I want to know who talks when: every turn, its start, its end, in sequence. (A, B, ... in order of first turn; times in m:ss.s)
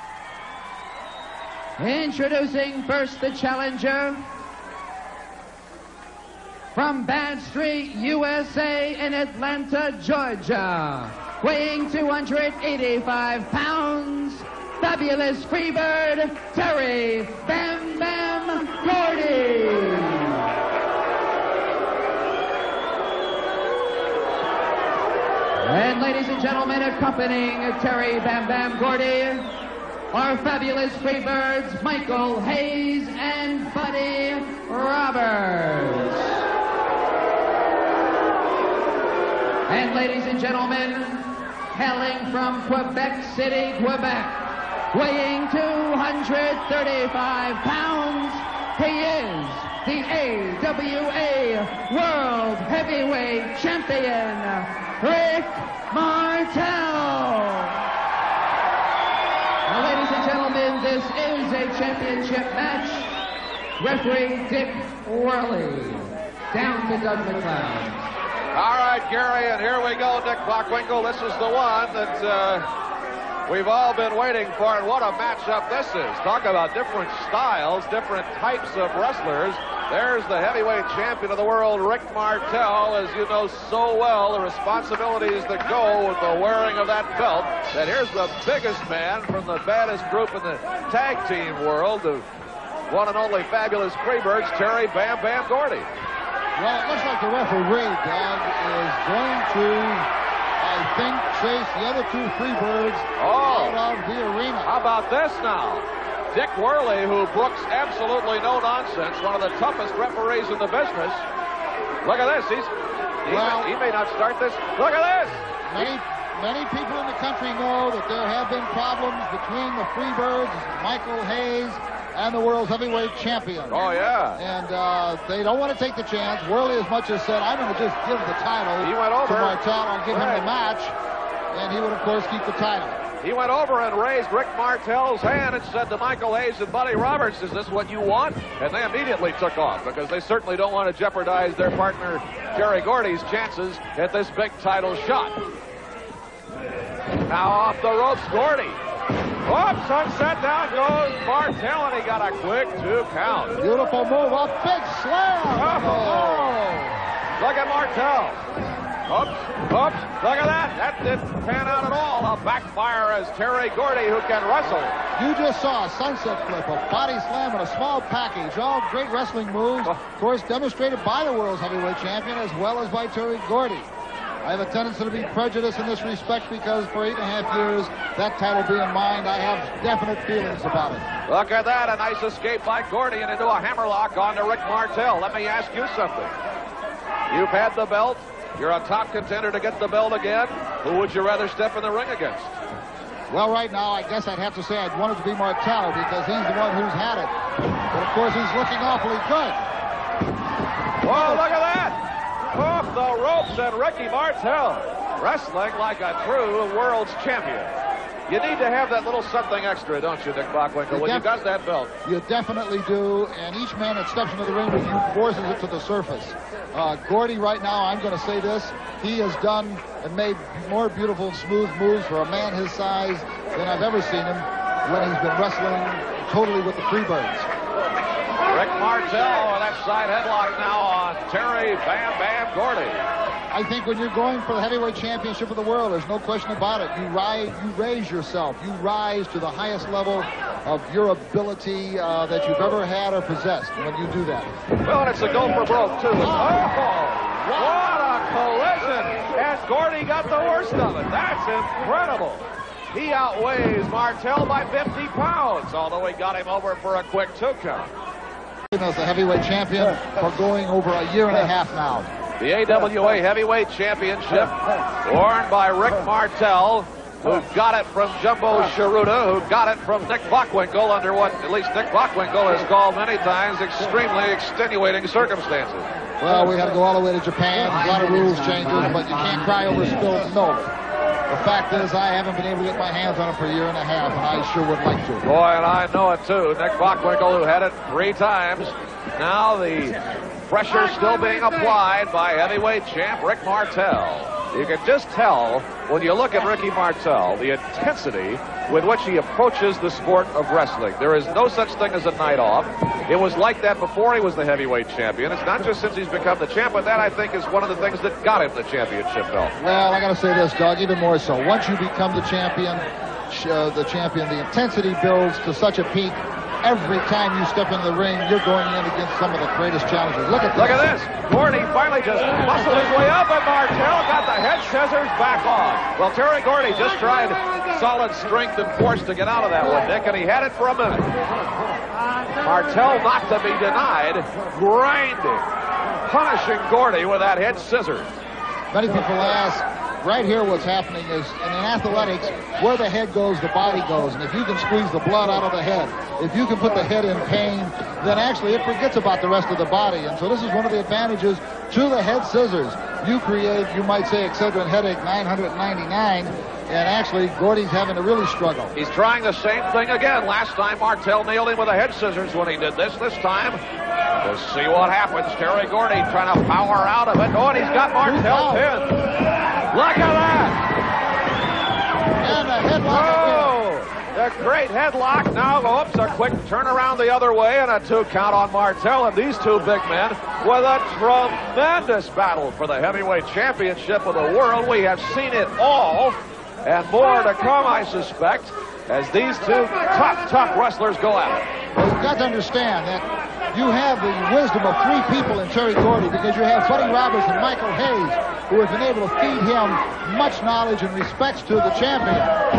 0:01.8-0:04.2 A
0:06.7-0:20.5 A
0:25.6-0:29.5 A
0:30.1-0:36.4 A
0:39.7-0:57.8 A
0:59.7-1:03.1 A
1:03.8-1:08.1 A
1:08.5-1:12.7 B
1:13.5-1:32.3 B
1:32.9-1:35.9 B
1:36.6-1:44.7 C
1:43.2-1:43.8 B
1:44.6-1:51.2 B
1:52.0-1:52.7 B
1:53.2-1:55.9 B
1:53.3-1:53.7 C
1:55.7-2:10.9 C
2:03.7-2:04.4 B
2:08.8-2:10.5 B
2:11.5-2:13.0 C
2:13.2-2:25.4 B
2:27.3-2:28.8 B
2:29.5-2:33.6 B
2:33.6-2:36.8 C
2:35.5-2:38.4 B
2:39.1-2:45.0 B
2:45.2-2:53.9 C
2:54.4-3:01.1 C
3:01.3-3:06.3 B
3:07.3-3:12.6 B
3:13.3-3:17.3 C
3:17.9-3:19.6 C
3:21.0-3:22.0 B
3:22.5-3:27.7 B
3:28.3-3:31.9 B
3:30.9-3:31.3 C
3:32.0-3:47.5 C
3:48.5-3:53.1 B
3:53.5-4:04.5 C
4:04.8-4:17.9 B
4:06.2-4:06.8 C
4:07.5-4:07.9 C
4:18.7-4:22.1 C
4:22.4-4:24.6 B
4:25.1-4:35.9 B
4:36.2-4:40.7 C
4:41.3-4:45.3 C
4:45.2-4:50.0 B
4:50.5-5:09.5 B
5:09.6-5:20.9 C
5:20.6-5:31.1 B
5:32.4-5:35.5 B
5:36.0-5:38.1 B
5:38.7-5:58.7 C
5:58.8-6:03.6 B
6:04.2-6:09.0 B
6:08.0-6:08.7 C
6:09.7-6:10.6 B
6:12.2-6:13.6 C
6:12.8-6:31.5 B
6:31.8-6:42.4 C